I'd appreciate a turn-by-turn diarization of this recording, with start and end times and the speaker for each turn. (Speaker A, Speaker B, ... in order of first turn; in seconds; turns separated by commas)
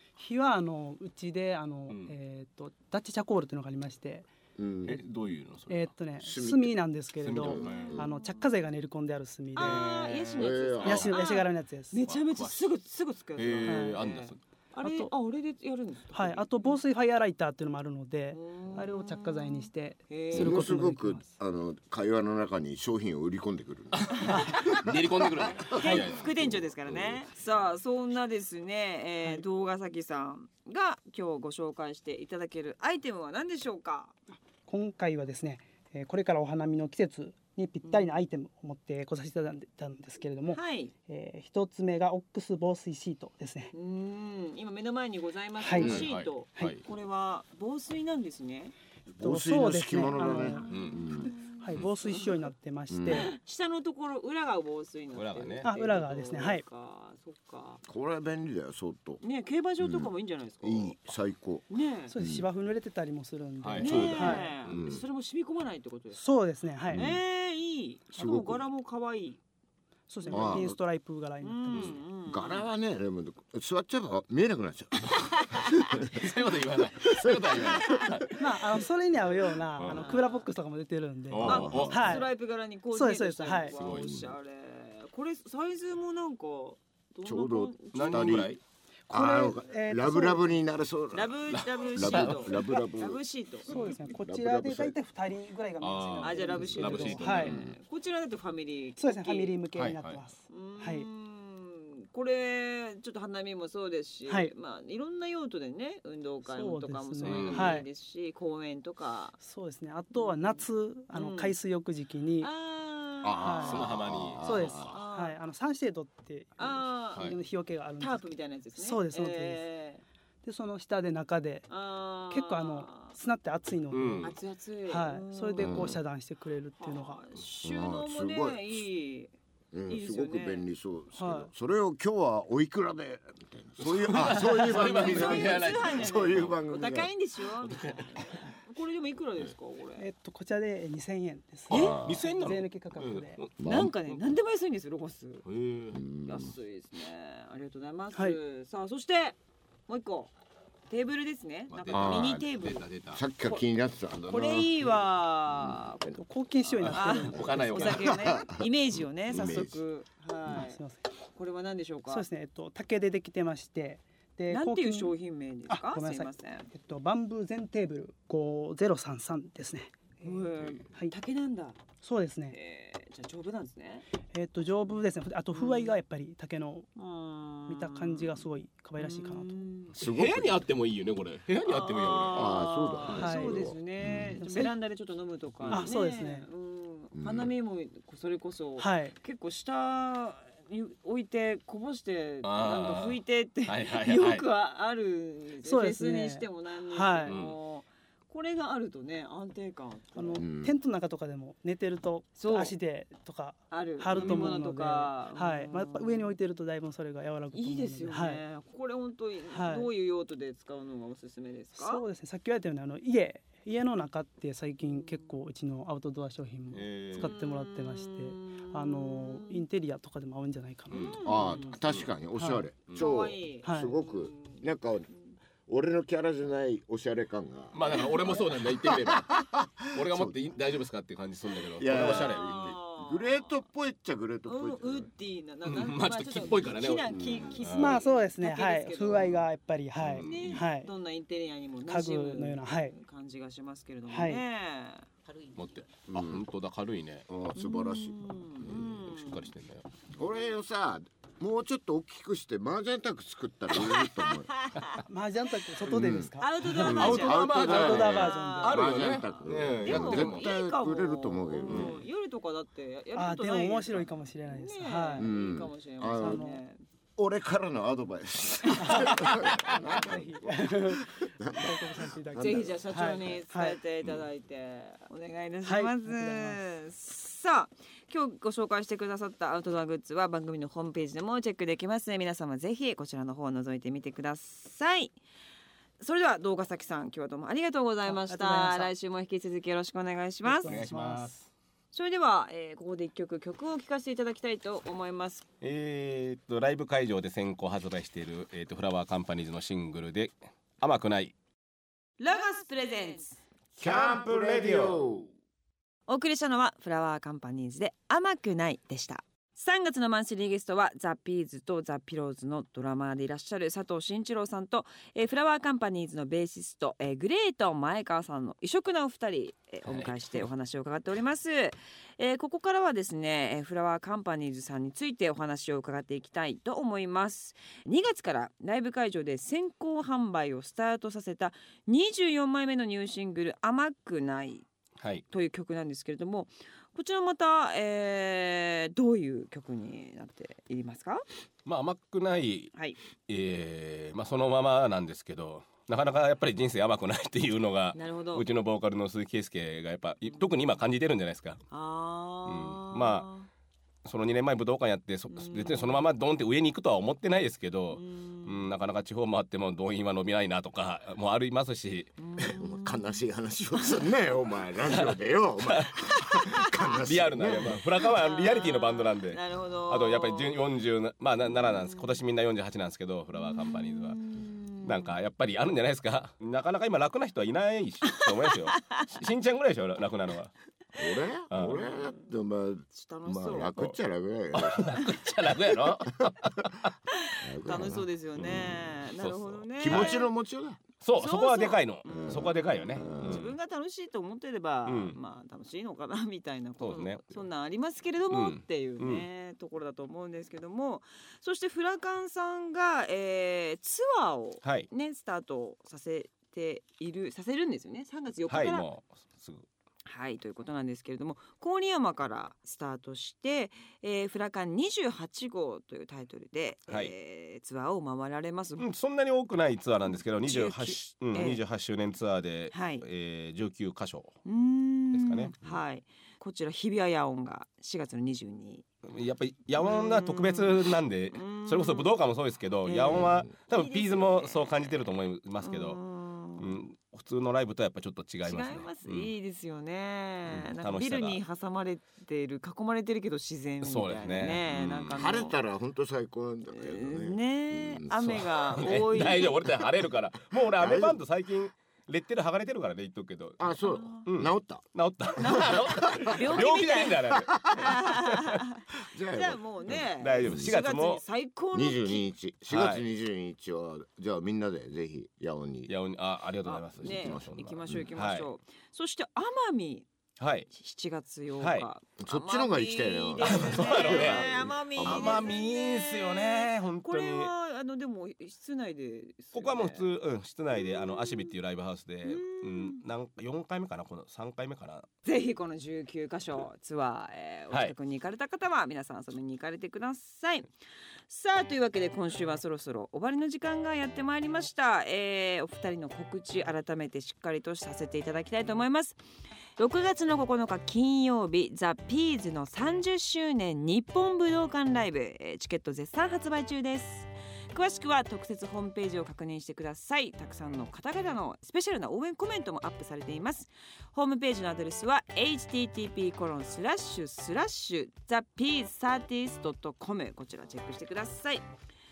Speaker A: 0.2-4.3, Speaker B: 1.9-2.1, Speaker C: 4.6-5.0, Speaker B: 4.8-5.9, Speaker A: 5.7-9.9, Speaker C: 6.2-6.8, Speaker B: 7.2-8.0, Speaker C: 7.3-8.1, Speaker D: 7.6-8.4, Speaker D: 9.5-16.8, Speaker B: 9.6-11.2, Speaker C: 10.3-11.1, Speaker A: 10.8-12.0, Speaker B: 12.1-12.7, Speaker B: 13.4-14.4, Speaker A: 13.6-14.0, Speaker A: 14.8-15.1, Speaker A: 16.1-21.2, Speaker D: 18.3-20.7, Speaker C: 20.3-27.2, Speaker B: 23.9-26.4, Speaker D: 25.7-34.1, Speaker A: 34.6-43.7, Speaker D: 37.8-38.2, Speaker D: 40.5-40.9, Speaker D: 43.7-48.7, Speaker A: 45.6-46.8, Speaker C: 45.8-46.1, Speaker B: 45.8-46.8, Speaker C: 49.1-51.3, Speaker A: 49.2-53.3, Speaker D: 50.2-52.5, Speaker B: 50.7-51.0, Speaker C: 52.9-53.3, Speaker D: 53.0-57.8, Speaker B: 55.1-55.7, Speaker A: 55.6-56.6, Speaker C: 57.9-59.2, Speaker D: 59.2-61.0, Speaker C: 59.8-60.1, Speaker C: 60.6-62.5, Speaker D: 61.7-62.1, Speaker A: 62.1-64.5, Speaker B: 63.6-64.9, Speaker D: 63.8-66.2, Speaker C: 63.9-65.0, Speaker A: 66.1-67.1, Speaker D: 66.9-69.4, Speaker C: 66.9-67.2, Speaker C: 68.1-68.6, Speaker A: 70.1-72.0, Speaker D: 70.2-70.7, Speaker C: 70.3-70.8, Speaker D: 71.4-72.6, Speaker C: 72.3-76.3, Speaker B: 75.9-78.8, Speaker C: 77.0-78.2, Speaker D: 77.7-78.1, Speaker A: 78.4-82.3, Speaker B: 79.8-80.1, Speaker D: 79.9-80.5, Speaker B: 81.3-82.2, Speaker C: 81.4-82.1, Speaker D: 81.4-88.5, Speaker A: 82.9-83.7, Speaker B: 83.7-84.2, Speaker C: 83.8-84.3, Speaker C: 87.2-88.5, Speaker B: 87.9-88.6, Speaker A: 89.1-90.6, Speaker C: 89.1-93.2, Speaker D: 91.1-93.7, Speaker B: 91.5-92.7, Speaker A: 93.7-97.5, Speaker B: 93.7-94.0, Speaker C: 93.7-95.0, Speaker B: 95.8-97.6, Speaker D: 96.2-99.5, Speaker C: 96.6-97.7, Speaker A: 99.0-101.1, Speaker B: 99.7-100.2, Speaker D: 100.5-109.3, Speaker A: 106.4-107.8, Speaker B: 107.2-107.8, Speaker A: 109.4-112.5, Speaker D: 110.1-111.5, Speaker D: 112.4-113.7, Speaker C: 113.2-115.0, Speaker A: 113.3-113.8, Speaker B: 113.5-114.8, Speaker A: 114.4-118.2, Speaker D: 114.8-115.3, Speaker D: 116.6-117.3, Speaker D: 118.0-120.0, Speaker A: 118.8-119.6, Speaker A: 120.4-121.7, Speaker D: 121.7-123.1, Speaker A: 122.3-124.3, Speaker B: 123.9-124.3, Speaker D: 124.2-125.9, Speaker A: 124.9-127.2, Speaker C: 125.6-126.0, Speaker D: 126.8-129.3, Speaker C: 127.6-128.8, Speaker C: 129.7-137.1, Speaker D: 129.9-130.7, Speaker A: 131.2-131.5, Speaker B: 133.8-136.5, Speaker D: 134.7-140.1, Speaker B: 137.8-138.0, Speaker A: 140.0-143.4, Speaker C: 141.7-142.2, Speaker B: 141.7-143.5, Speaker C: 143.6-143.9, Speaker D: 143.6-145.4, Speaker B: 145.4-146.0, Speaker C: 145.9-146.5, Speaker D: 146.3-149.4, Speaker A: 148.1-148.4, Speaker D: 149.9-150.3, Speaker D: 150.9-152.8, Speaker B: 151.7-153.2, Speaker C: 151.9-152.4, Speaker C: 153.1-154.9, Speaker D: 154.3-156.1, Speaker C: 155.5-156.2, Speaker A: 156.2-158.1, Speaker B: 156.8-158.2, Speaker D: 156.9-160.8, Speaker C: 158.0-158.7, Speaker C: 159.3-159.8, Speaker A: 160.5-161.0, Speaker D: 161.3-162.2, Speaker A: 162.1-165.1, Speaker D: 164.5-166.7, Speaker A: 165.7-171.1, Speaker D: 170.2-171.8, Speaker A: 172.0-172.6, Speaker D: 172.5-174.1, Speaker A: 174.3-176.9, Speaker D: 175.5-176.0, Speaker D: 176.9-178.4, Speaker A: 177.7-179.5, Speaker D: 179.0-179.9, Speaker C: 179.9-180.6, Speaker B: 180.0-182.6, Speaker D: 181.6-200.4, Speaker C: 182.3-184.4, Speaker A: 183.1-183.7, Speaker A: 184.3-184.7, Speaker A: 185.7-186.5, Speaker C: 187.1-187.5, Speaker A: 188.8-189.1, Speaker B: 192.4-194.4, Speaker A: 195.6-197.4, Speaker B: 197.3-197.6, Speaker A: 200.1-208.4, Speaker C: 200.4-200.7, Speaker D: 202.4-202.7, Speaker D: 203.7-206.3, Speaker B: 204.1-204.5, Speaker D: 207.5-212.0, Speaker A: 209.5-209.9, Speaker A: 211.7-221.3, Speaker D: 214.9-215.3, Speaker B: 216.7-217.3, Speaker D: 217.1-219.6, Speaker B: 220.9-221.2, Speaker D: 220.9-221.8, Speaker C: 221.2-225.1, Speaker B: 221.8-222.1, Speaker A: 222.4-222.6, Speaker D: 222.9-224.6, Speaker A: 223.6-223.9, Speaker C: 225.7-230.4, Speaker B: 227.7-229.4, Speaker B: 229.9-232.8, Speaker C: 231.6-235.1, Speaker D: 231.9-233.6, Speaker D: 234.4-239.4, Speaker B: 235.6-238.0, Speaker C: 237.1-237.6, Speaker A: 237.7-240.9, Speaker B: 240.0-240.6, Speaker D: 240.2-245.2, Speaker A: 241.9-242.9, Speaker A: 244.1-244.4, Speaker B: 245.6-247.3, Speaker C: 246.1-246.4, Speaker C: 247.3-248.9, Speaker D: 247.6-249.5, Speaker B: 248.6-249.8, Speaker C: 250.1-254.5, Speaker D: 253.8-255.0, Speaker A: 255.1-258.9, Speaker C: 255.9-256.3, Speaker D: 256.4-266.8, Speaker B: 256.8-260.5, Speaker C: 256.8-262.0, Speaker B: 261.7-262.0, Speaker A: 263.1-265.3, Speaker C: 265.2-266.5, Speaker A: 266.0-266.6, Speaker C: 267.2-273.2, Speaker A: 268.7-273.8, Speaker B: 269.0-269.5, Speaker D: 272.4-285.1, Speaker A: 275.6-276.6, Speaker D: 286.0-290.8, Speaker A: 288.1-288.9, Speaker A: 290.4-291.4, Speaker B: 290.6-291.5, Speaker D: 291.9-295.4, Speaker B: 295.6-301.3, Speaker D: 302.2-303.4, Speaker C: 303.8-305.3, Speaker B: 303.8-305.0, Speaker D: 306.1-334.7, Speaker B: 319.9-320.5, Speaker B: 335.0-335.2, Speaker D: 335.3-341.2, Speaker B: 341.6-342.7, Speaker B: 343.3-351.6, Speaker D: 347.9-348.4, Speaker D: 351.7-353.5, Speaker B: 352.4-353.3, Speaker B: 354.0-362.1, Speaker D: 355.3-356.0, Speaker D: 357.9-358.7, Speaker D: 362.2-363.2, Speaker C: 362.4-367.8, Speaker D: 363.8-364.0, Speaker B: 364.9-374.2, Speaker D: 368.0-370.6, Speaker D: 371.5-372.2, Speaker D: 373.3-375.2, Speaker B: 374.8-380.5, Speaker D: 378.1-379.0, Speaker C: 381.0-384.9, Speaker B: 381.5-381.8, Speaker D: 381.6-382.3, Speaker D: 382.9-383.8, Speaker B: 384.5-386.9, Speaker D: 387.1-390.3, Speaker C: 387.4-388.1, Speaker B: 388.4-390.2, Speaker C: 389.8-390.8, Speaker B: 391.0-393.5, Speaker D: 391.2-408.9, Speaker C: 392.1-393.5, Speaker B: 394.9-395.2, Speaker B: 396.8-397.4, Speaker B: 398.3-399.3, Speaker B: 404.6-404.9, Speaker B: 408.5-409.6, Speaker D: 410.1-418.8, Speaker B: 418.8-424.4, Speaker D: 420.4-421.6, Speaker D: 422.7-423.0, Speaker D: 424.4-428.9, Speaker B: 425.1-425.5, Speaker B: 429.0-436.0, Speaker D: 429.8-432.1, Speaker D: 432.8-436.7, Speaker C: 433.1-433.5, Speaker B: 436.6-439.3, Speaker D: 438.4-445.6, Speaker B: 440.5-441.4, Speaker B: 443.8-445.2, Speaker C: 445.1-448.4, Speaker D: 446.7-449.7, Speaker B: 448.1-453.6, Speaker C: 450.8-451.2, Speaker C: 453.6-454.8, Speaker D: 453.8-454.2, Speaker B: 454.2-458.6, Speaker D: 455.4-462.3, Speaker C: 455.5-456.4, Speaker C: 457.5-457.9, Speaker C: 459.0-460.7, Speaker B: 459.9-461.2, Speaker C: 461.7-465.9, Speaker B: 462.7-463.0, Speaker B: 465.9-468.5, Speaker D: 466.6-470.1, Speaker C: 467.0-468.1, Speaker B: 470.4-470.7, Speaker D: 470.7-480.1, Speaker B: 471.6-471.9, Speaker C: 472.2-475.6, Speaker B: 473.4-474.5, Speaker B: 475.0-477.5, Speaker B: 479.5-485.1, Speaker D: 480.7-481.5, Speaker D: 482.2-483.0, Speaker D: 485.2-490.7, Speaker D: 491.3-499.2, Speaker D: 499.8-521.6